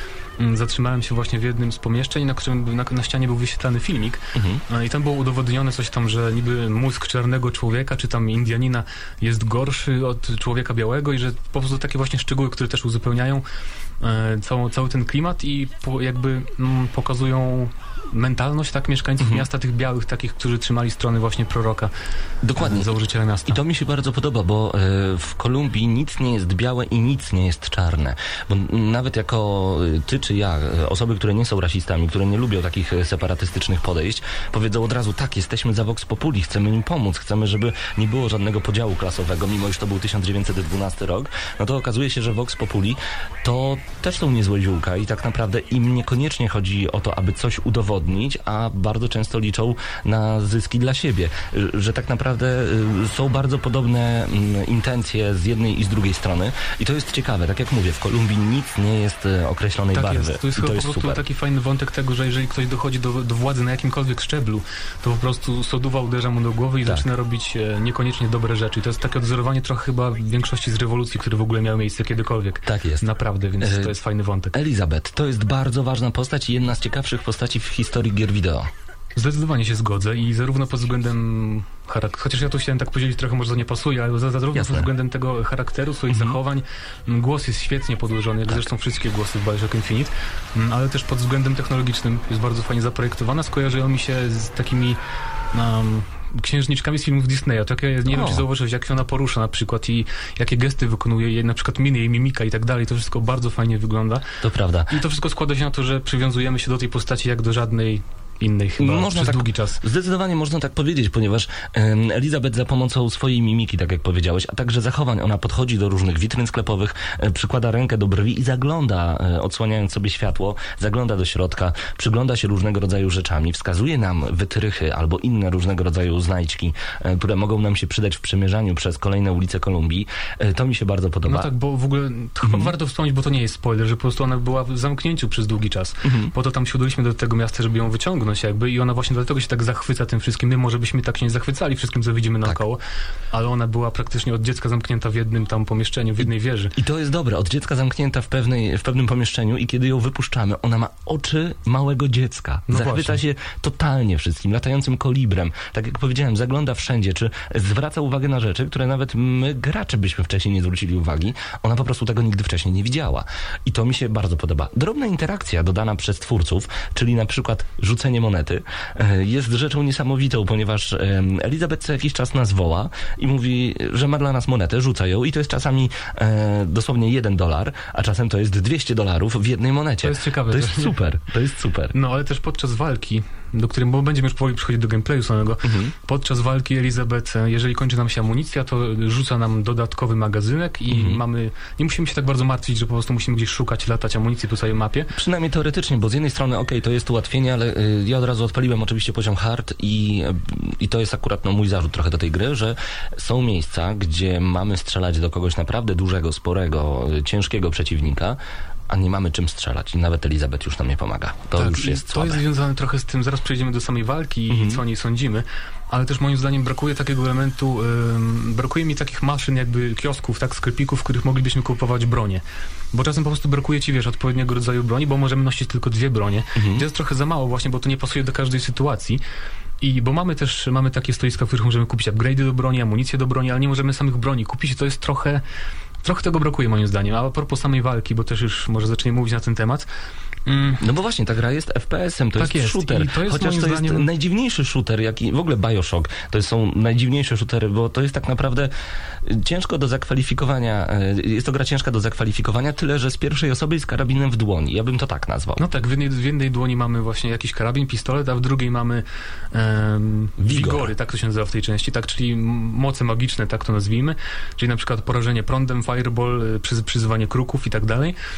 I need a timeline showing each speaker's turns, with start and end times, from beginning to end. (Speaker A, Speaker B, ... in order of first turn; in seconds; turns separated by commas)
Speaker A: 0.4-13.4, Speaker B: 4.3-4.6, Speaker A: 14.0-21.9, Speaker B: 19.2-19.4, Speaker B: 22.4-22.9, Speaker A: 22.6-23.6, Speaker B: 23.5-61.2, Speaker A: 59.9-74.5, Speaker B: 72.7-73.1, Speaker B: 73.6-73.9, Speaker B: 74.5-78.7, Speaker A: 79.1-95.0, Speaker B: 84.5-84.9, Speaker B: 86.1-86.4, Speaker A: 95.5-104.3, Speaker B: 98.1-98.5, Speaker B: 104.4-105.0, Speaker A: 104.9-109.8, Speaker B: 108.8-131.5, Speaker A: 131.2-142.8, Speaker B: 132.4-132.7, Speaker B: 136.0-136.3, Speaker A: 143.3-146.7, Speaker B: 146.8-181.9, Speaker A: 152.7-153.2, Speaker A: 180.0-181.0, Speaker A: 181.9-195.1, Speaker B: 185.6-185.9, Speaker B: 190.9-191.2, Speaker B: 195.1-208.4, Speaker B: 208.9-212.4, Speaker A: 211.6-229.2, Speaker B: 214.5-214.8, Speaker B: 226.5-226.8, Speaker A: 229.8-235.4, Speaker A: 236.0-239.9, Speaker A: 240.5-240.8, Speaker B: 240.8-248.7, Speaker A: 242.4-244.1, Speaker B: 249.2-255.7, Speaker A: 255.6-268.1, Speaker B: 260.4-260.9